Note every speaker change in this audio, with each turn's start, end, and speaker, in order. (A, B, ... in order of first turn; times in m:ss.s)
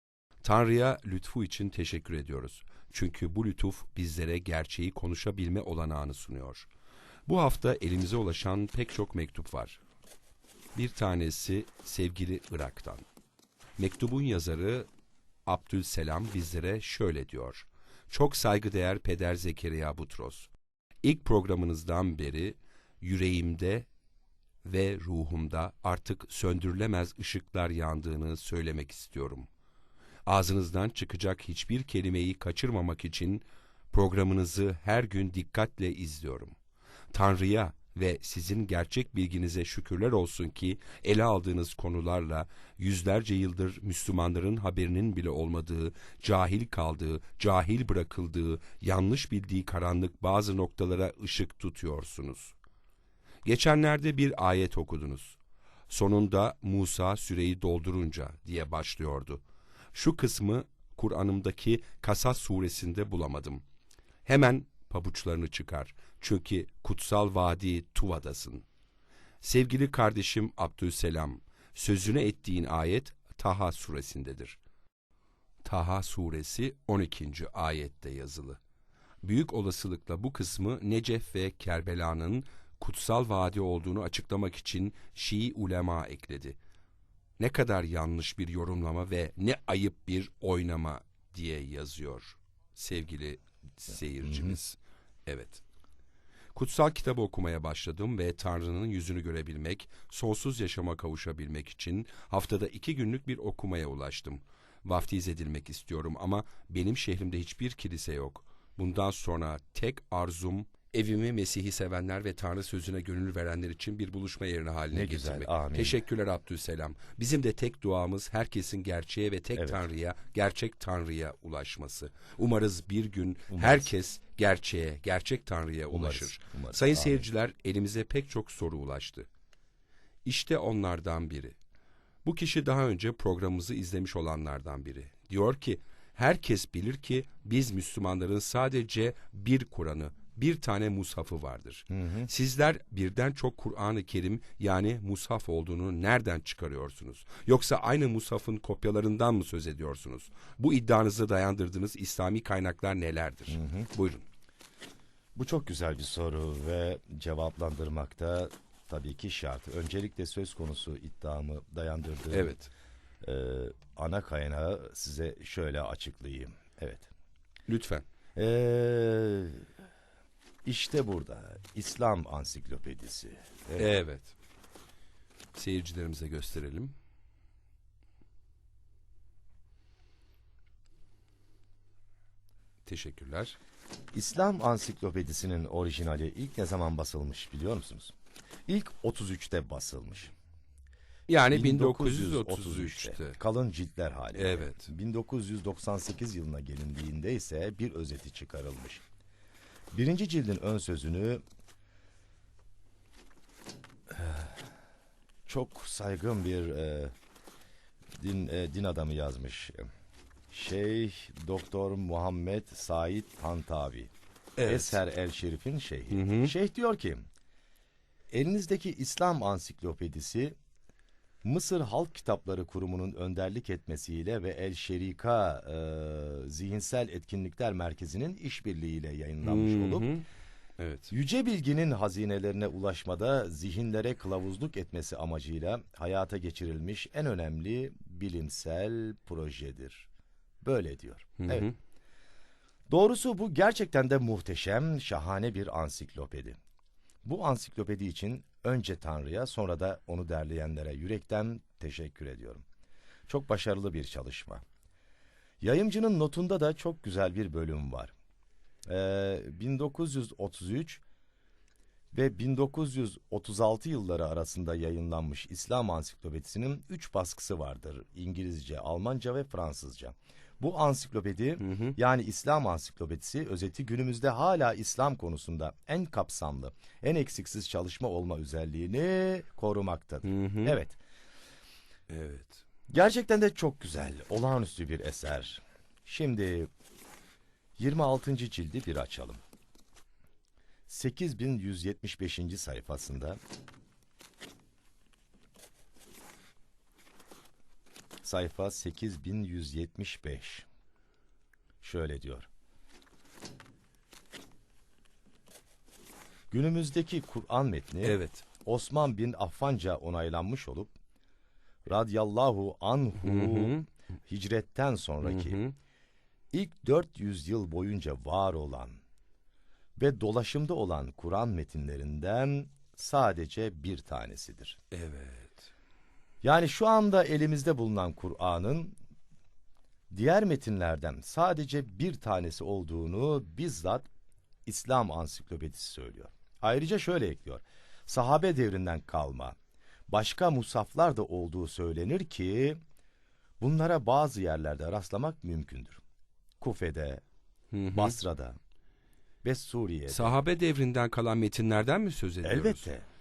0:00.4-0:06.7 A
0:07.3-0:09.8 A
0:10.7-0:13.0 A
0:13.8-0:14.9 A
0:15.5-0:20.5 A
0:21.0-0:23.9 A
0:24.6-0:29.5 A
0:30.2-0:36.6 A
0:37.1-0:52.6 A
0:53.4-0:55.4 A
0:55.9-0:59.4 A
0:59.9-1:03.6 A
1:04.2-1:08.6 A
1:09.4-1:14.6 A
1:15.6-1:18.6 A
1:19.2-1:26.6 A
1:27.4-1:35.6 A
1:34.2-1:34.6 B
1:36.5-2:09.3 A
1:54.9-1:56.0 B
1:59.6-1:59.8 B
2:03.5-2:03.9 B
2:05.9-2:07.2 B
2:10.2-2:11.6 A
2:12.2-2:34.2 A
2:21.9-2:22.3 B
2:33.5-2:33.9 B
2:35.4-2:42.6 B
2:42.3-2:42.7 A
2:43.2-2:47.1 B
2:47.7-2:48.0 A
2:48.4-2:49.6 B
2:50.6-2:54.0 B
2:53.8-2:54.3 A
2:55.5-2:56.9 A
3:02.8-3:03.6 A
3:04.1-3:08.1 B
3:08.7-3:10.3 B
3:11.3-3:13.4 A
3:11.5-3:19.0 B
3:14.3-3:14.9 A
3:19.9-3:21.4 B
3:24.1-3:24.7 B
3:25.4-3:27.1 B
3:28.1-3:29.8 B
3:30.5-3:34.1 B
3:34.6-3:35.0 A
3:34.7-3:37.3 B
3:36.1-3:36.5 A
3:38.3-3:40.6 B
3:41.4-3:50.1 B
3:49.4-3:50.2 A
3:50.8-3:51.1 A
3:51.1-4:00.1 B
4:00.6-4:01.7 B
4:01.4-4:01.8 A
4:02.9-4:06.6 B
4:07.2-4:12.6 B
4:13.3-4:14.6 B
4:15.6-4:18.1 B
4:18.8-4:21.0 B
4:22.1-4:41.0 B
4:31.6-4:32.0 A
4:40.2-4:40.8 A
4:42.1-4:42.6 A
4:42.9-4:46.7 B
4:47.8-4:49.4 B
4:50.9-4:53.4 B
4:58.2-5:00.6 B
5:01.8-5:02.5 B
5:06.5-5:10.9 B
5:08.0-5:08.4 A
5:11.9-5:15.6 B
5:13.2-5:13.8 A
5:15.2-5:15.7 A
5:16.5-5:19.0 B
5:20.0-5:24.8 B
5:24.9-5:25.7 A
5:26.4-5:29.0 B
5:30.1-5:34.1 B
5:34.6-5:39.6 B
5:40.1-5:42.8 B
5:43.6-5:46.0 B
5:46.6-5:47.2 B
5:47.7-5:48.2 A
5:47.9-5:48.6 B
5:49.4-5:50.3 B
5:50.1-5:52.9 A
5:52.4-5:53.0 B